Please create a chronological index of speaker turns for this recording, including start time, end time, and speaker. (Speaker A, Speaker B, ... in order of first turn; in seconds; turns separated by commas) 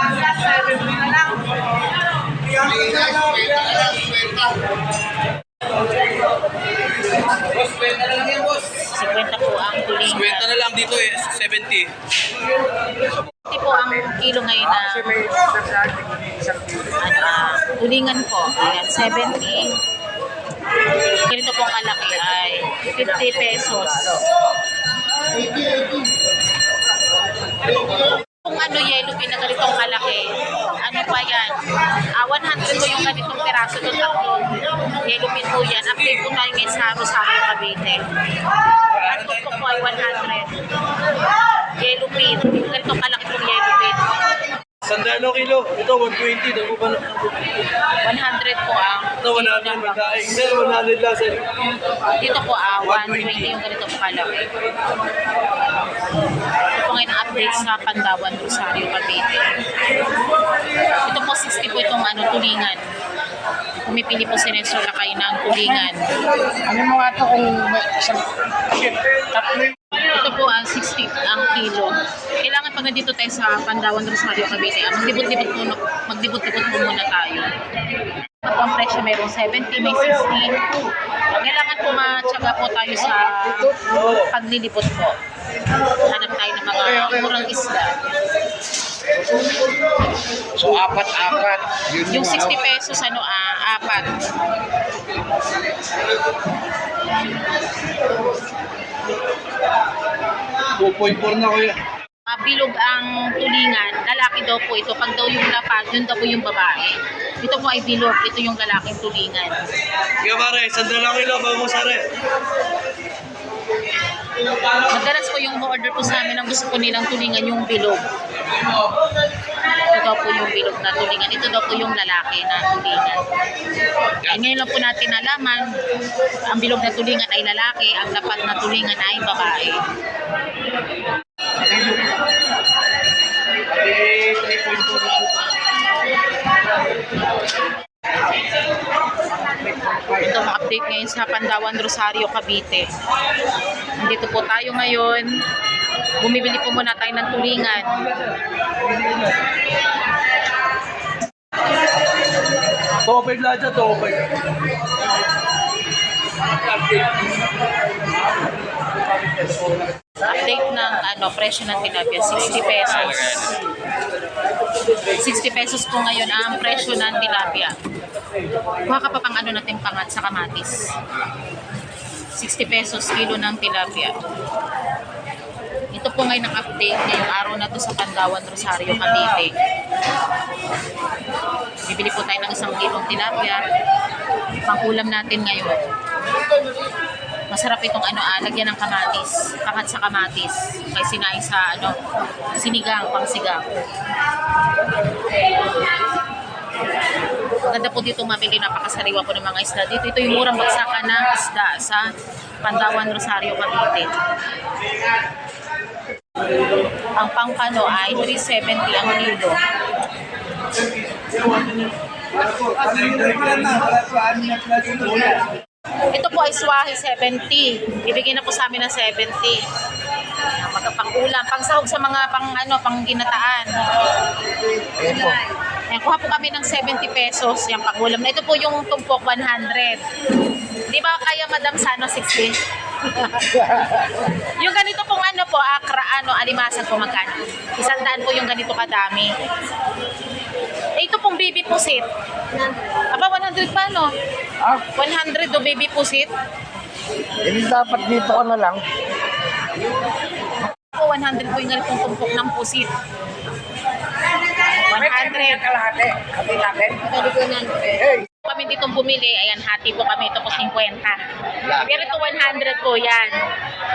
Speaker A: 2.7-4.4, Speaker B: 8.8-10.7, Speaker C: 10.2-11.9, Speaker B: 13.4-15.4, Speaker A: 14.8-17.0, Speaker B: 17.0-19.7, Speaker B: 21.2-24.3, Speaker B: 28.4-38.0, Speaker B: 38.9-40.6, Speaker B: 41.8-44.2, Speaker C: 44.8-47.4, Speaker B: 48.0-50.3, Speaker C: 49.2-51.5, Speaker B: 52.2-54.5, Speaker C: 52.8-53.5, Speaker B: 56.7-59.3, Speaker B: 61.0-62.8, Speaker B: 63.8-66.1, Speaker A: 66.4-69.7, Speaker B: 69.9-77.5, Speaker B: 78.4-80.6, Speaker B: 81.3-85.2, Speaker B: 86.0-88.0, Speaker A: 90.5-92.6, Speaker B: 92.1-94.2, Speaker C: 100.8-101.8, Speaker B: 102.3-109.7, Speaker C: 110.2-112.1, Speaker B: 114.7-118.1, Speaker B: 119.8-123.2, Speaker B: 124.2-125.8, Speaker B: 126.5-129.8, Speaker C: 133.8-135.3, Speaker A: 139.4-140.3, Speaker B: 140.2-142.9, Speaker B: 144.0-145.3, Speaker B: 146.2-148.1, Speaker C: 149.0-149.3, Speaker C: 153.0-154.3, Speaker B: 160.2-163.5, Speaker B: 165.1-167.7, Speaker B: 168.8-170.9, Speaker B: 172.4-174.2, Speaker B: 175.9-179.5, Speaker B: 181.9-183.6, Speaker B: 184.7-185.9, Speaker B: 187.5-192.0, Speaker B: 192.6-193.8, Speaker B: 197.7-202.1, Speaker B: 202.6-204.1, Speaker B: 207.2-209.6, Speaker C: 211.2-211.9, Speaker C: 212.4-215.4, Speaker B: 216.1-219.6, Speaker B: 220.6-223.7, Speaker A: 224.9-225.4, Speaker B: 225.9-230.0, Speaker B: 230.9-232.6, Speaker B: 233.2-233.7, Speaker B: 234.4-239.3, Speaker B: 241.0-242.1, Speaker B: 243.1-244.1, Speaker B: 244.9-246.3, Speaker A: 247.4-248.8, Speaker B: 250.9-252.9, Speaker B: 254.8-255.7, Speaker A: 254.9-258.3, Speaker B: 258.4-263.5